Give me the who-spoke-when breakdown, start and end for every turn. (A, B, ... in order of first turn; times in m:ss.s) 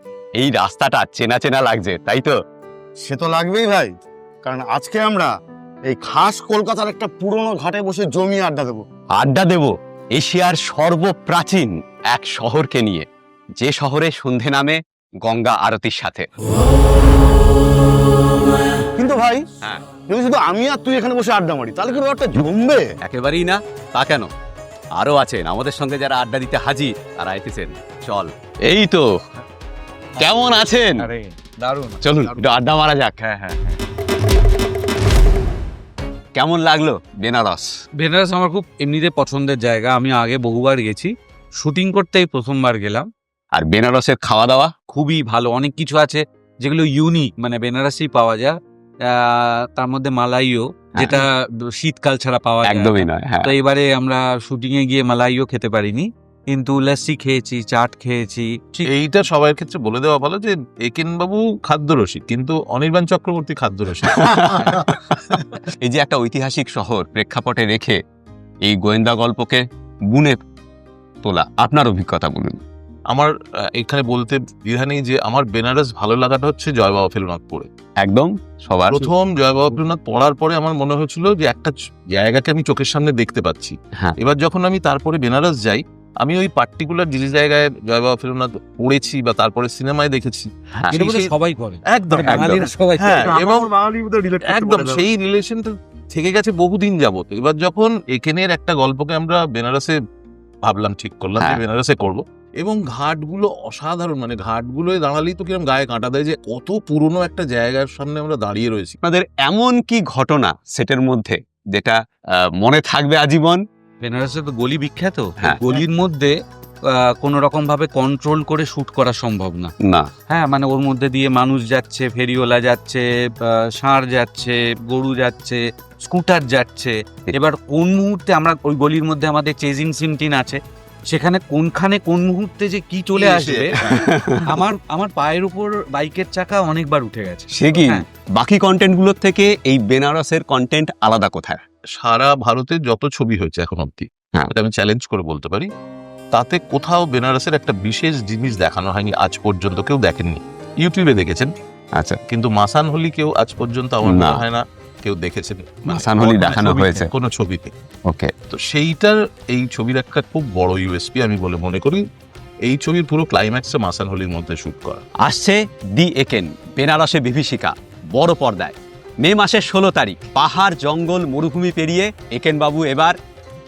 0:00.4-0:02.3 A
0:03.0-0:03.9 B
0:04.4-0:05.3 B
0:05.9-0:08.8 B
0:09.2-0:13.1 A
0:13.6-0:16.3 A
0:19.0-0:19.4 B
0:20.1-0:22.9 B
0:23.0-0:24.3 A
0:25.0-0:29.1 A
0:30.2-0:31.0 A
0:31.0-0:32.4 C
0:32.0-0:33.2 A
0:33.2-0:33.8 C
0:36.4-0:37.7 A
0:38.0-0:43.1 C
0:43.6-0:44.7 A
0:44.9-0:48.6 C
0:49.1-0:58.9 C
0:51.0-0:51.2 A
0:52.7-0:53.5 A
0:58.8-1:05.4 D
1:04.1-1:08.0 A
1:08.7-1:10.4 A
1:11.2-1:12.6 A
1:13.1-1:17.7 D
1:18.0-1:19.1 A
1:18.9-1:31.3 D
1:30.9-1:33.3 C
1:31.9-1:33.7 D
1:32.3-1:32.6 A
1:33.1-1:35.1 B
1:34.4-1:40.0 D
1:40.6-1:49.0 D
1:49.0-1:53.6 A
1:54.0-1:56.3 C
1:56.9-1:59.7 C
2:00.3-2:18.0 C
2:13.2-2:13.6 D
2:13.8-2:14.4 A
2:17.5-2:21.6 A
2:21.9-2:25.7 D
2:26.3-2:31.5 D
2:32.3-2:37.7 D
2:34.0-2:34.4 A
2:35.9-2:37.1 A
2:36.4-2:37.0 C
2:38.5-2:42.0 D
2:42.6-2:45.0 D
2:45.2-2:53.2 A